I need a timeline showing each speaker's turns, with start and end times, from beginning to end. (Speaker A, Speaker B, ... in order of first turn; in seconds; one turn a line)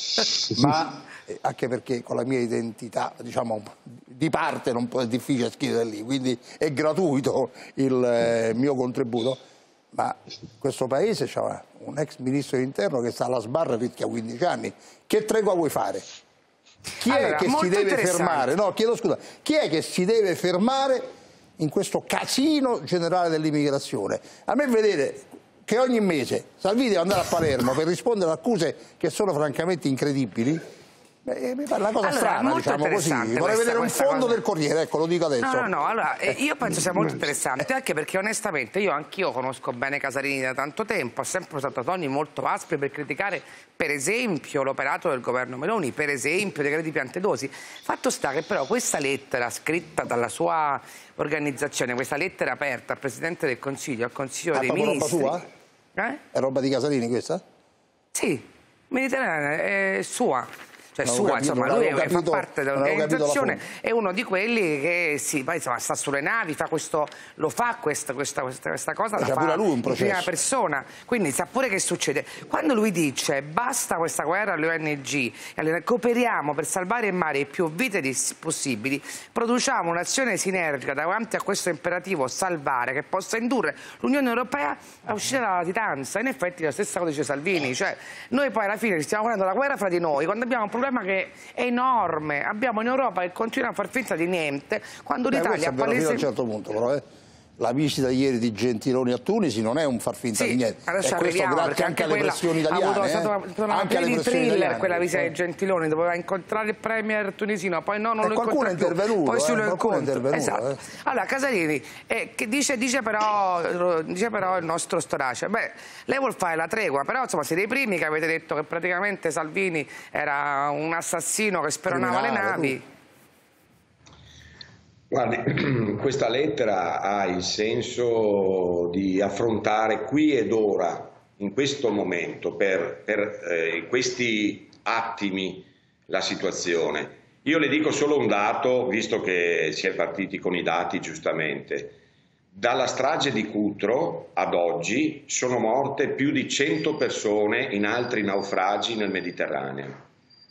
Speaker A: 0.5-9.4
Speaker A: 9.9-16.1
Speaker A: 17.0-30.6
Speaker B: 17.1-18.5
Speaker A: 31.2-35.7
Speaker B: 32.0-34.4
Speaker B: 35.4-55.4
Speaker A: 54.5-55.5
Speaker A: 56.3-57.4
Speaker B: 58.1-96.2
Speaker A: 61.0-63.6
Speaker A: 69.2-70.3
Speaker A: 95.3-97.0
Speaker A: 97.6-105.3
Speaker B: 100.3-122.8
Speaker A: 108.2-110.8
Speaker A: 121.9-122.8
Speaker C: 125.1-142.0
Speaker C: 142.5-150.1